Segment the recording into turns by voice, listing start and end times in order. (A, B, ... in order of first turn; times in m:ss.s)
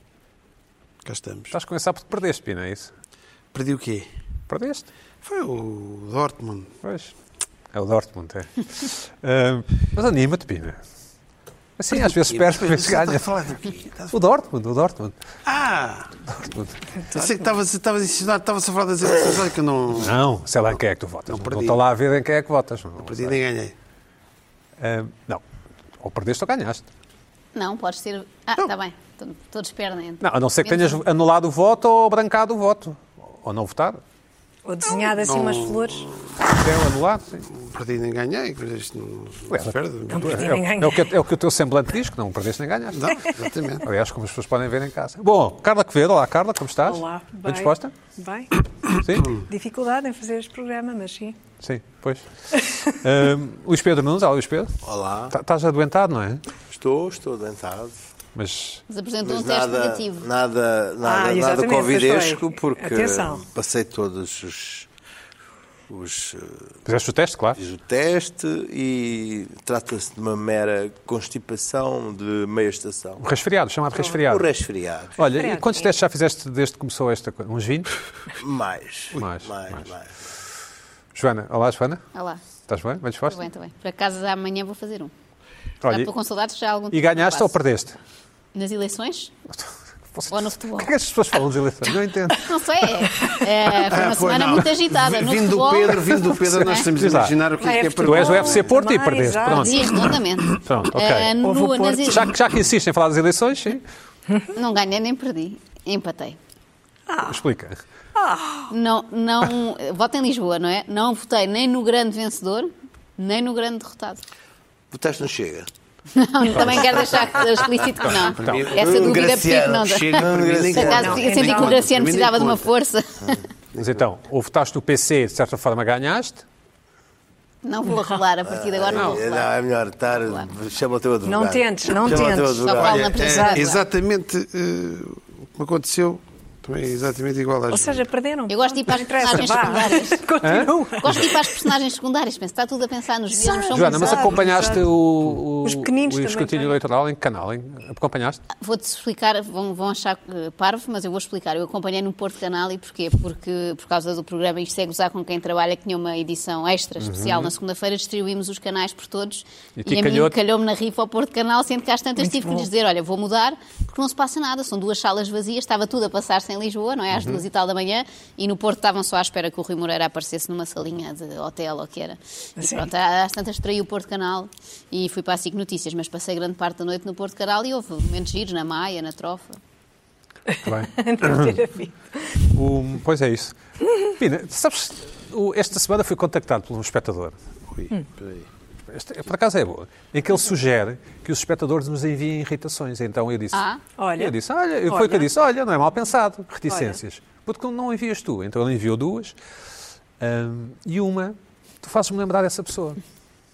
0:01.0-0:01.5 A
0:01.5-0:02.9 B
0:03.5-0:04.1 A
0:04.5-0:04.9 B
0:05.2-0:06.7 A
0:06.8-0:07.1 B
0:07.7-0:10.8 B
0:11.8-0:13.3 B
0:11.9-0:14.1 A
0:14.1-0:15.1 B
0:15.4-0:16.1 A
0:16.3-0:16.8 B
0:17.1-0:20.2 A
0:20.0-0:23.4 B
0:21.3-0:21.8 A
0:23.0-0:23.7 A
0:24.8-0:25.4 B
0:26.0-0:26.8 B
0:27.5-0:31.0 C
0:30.2-0:34.0 B
0:34.6-0:36.0 D
0:34.9-0:36.5 A
0:36.4-0:37.4 B
0:37.5-0:40.5 A
0:39.5-0:47.9 B
0:40.1-0:41.1 D
0:42.9-0:43.8 A
0:46.8-0:48.5 D
0:49.0-0:49.4 B
0:49.3-0:51.4 D
0:51.6-0:52.3 B
0:52.8-0:56.4 B
0:54.8-0:55.3 E
0:56.7-0:58.0 E
0:58.3-0:58.8 B
0:58.9-1:00.2 C
0:59.2-1:04.9 E
1:01.0-1:03.4 D
1:05.9-1:06.7 E
1:06.8-1:07.6 B
1:07.6-1:13.2 E
1:13.2-1:14.5 B
1:14.2-1:15.2 E
1:15.2-1:17.9 B
1:15.3-1:15.9 D
1:18.4-1:20.1 E
1:19.1-1:19.9 B
1:21.1-1:22.0 B
1:22.1-1:22.4 C
1:22.7-1:23.4 B
1:23.3-1:25.1 C
1:25.8-1:26.1 B
1:25.8-1:27.5 C
1:26.9-1:28.0 B
1:28.5-1:29.3 C
1:29.5-1:32.5 B
1:30.3-1:30.9 C
1:32.3-1:36.9 C
1:33.8-1:38.8 A
1:36.4-1:37.4 B
1:37.6-1:40.2 D
1:38.0-1:39.9 B
1:39.6-1:42.3 C
1:40.5-1:41.3 B
1:41.4-1:42.3 D
1:42.0-1:43.8 B
1:44.5-1:46.4 C
1:47.1-1:47.4 D
1:47.3-1:47.8 B
1:48.1-1:48.7 D
1:48.7-1:54.2 C
1:54.9-1:55.7 E
1:56.1-2:03.4 C
1:58.0-1:58.7 B
1:58.3-2:02.7 A
1:58.7-2:01.4 E
2:00.9-2:01.8 D
2:03.7-2:06.4 B
2:07.6-2:09.5 C
2:08.5-2:13.1 E
2:10.2-2:10.4 C
2:11.2-2:13.6 D
2:12.6-2:13.8 C
2:12.8-2:18.0 A
2:17.7-2:21.7 D
2:18.5-2:20.3 C
2:20.4-2:21.2 B
2:21.0-2:24.4 C
2:23.3-2:24.9 D
2:23.7-2:28.4 B
2:25.6-2:26.8 D
2:28.6-2:59.6 C
2:37.0-2:37.5 B
2:39.8-2:40.3 B
2:42.2-2:42.7 D
2:47.1-2:47.4 B
2:52.6-2:52.9 D
3:00.5-3:02.4 D
3:00.6-3:01.6 B
3:02.4-3:07.4 B
3:07.7-3:08.5 A
3:08.9-3:13.6 B
3:13.5-3:13.8 C
3:14.0-3:14.3 D
3:14.2-3:19.3 B
3:14.8-3:15.3 D
3:16.7-3:17.0 D
3:20.2-3:23.0 B